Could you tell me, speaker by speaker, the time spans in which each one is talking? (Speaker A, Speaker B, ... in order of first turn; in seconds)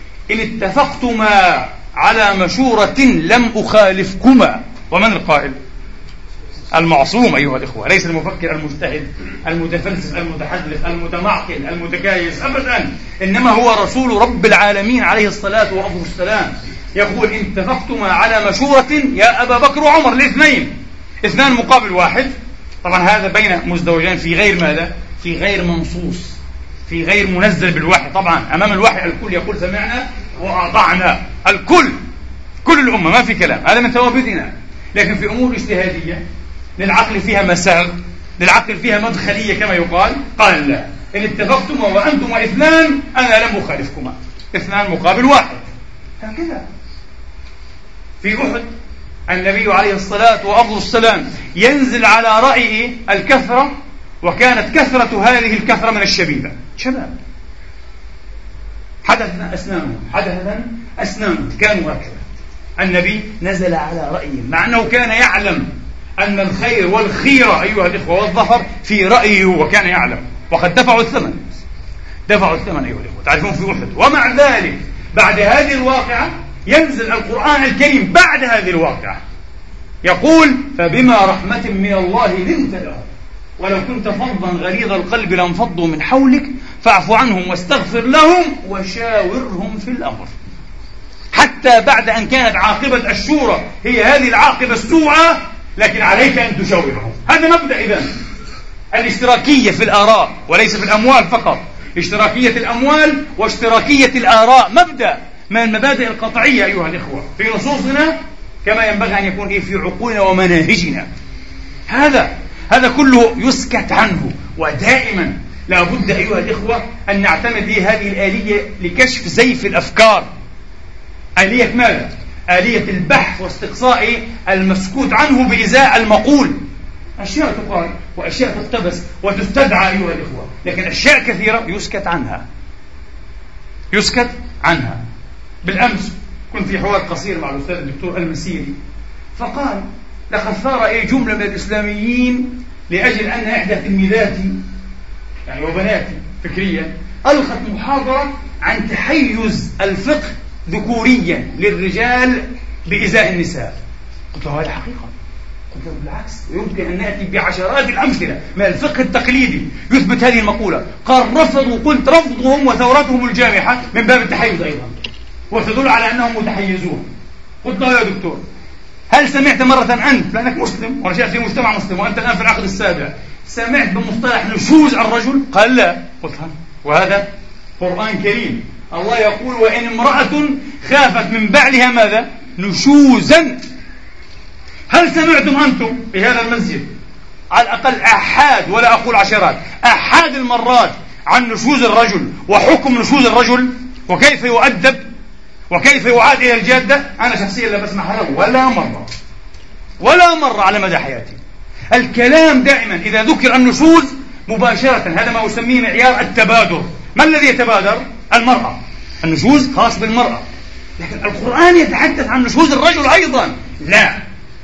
Speaker A: 0.3-5.6, 6.7-20.7, 21.2-22.3, 22.8-26.4, 26.9-32.0, 32.6-36.2, 36.8-45.7, 46.2-46.7, 48.2-48.7, 49.3-57.2, 59.0-62.2, 62.8-71.6, 72.3-79.2, 80.0-83.1, 83.6-90.3, 91.3-98.1, 98.9-111.1, 111.9-120.3, 121.4-126.6, 127.2-132.4, 133.9-135.0, 135.6-138.8, 139.3-144.6, 145.5-153.8, 154.3-155.1, 155.7-165.0, 165.5-167.1, 167.6-168.4, 169.1-177.3, 177.8-183.6, 184.9-186.9, 187.5-195.0, 195.7-199.1, 200.0-201.4, 201.9-210.4, 211.0-214.2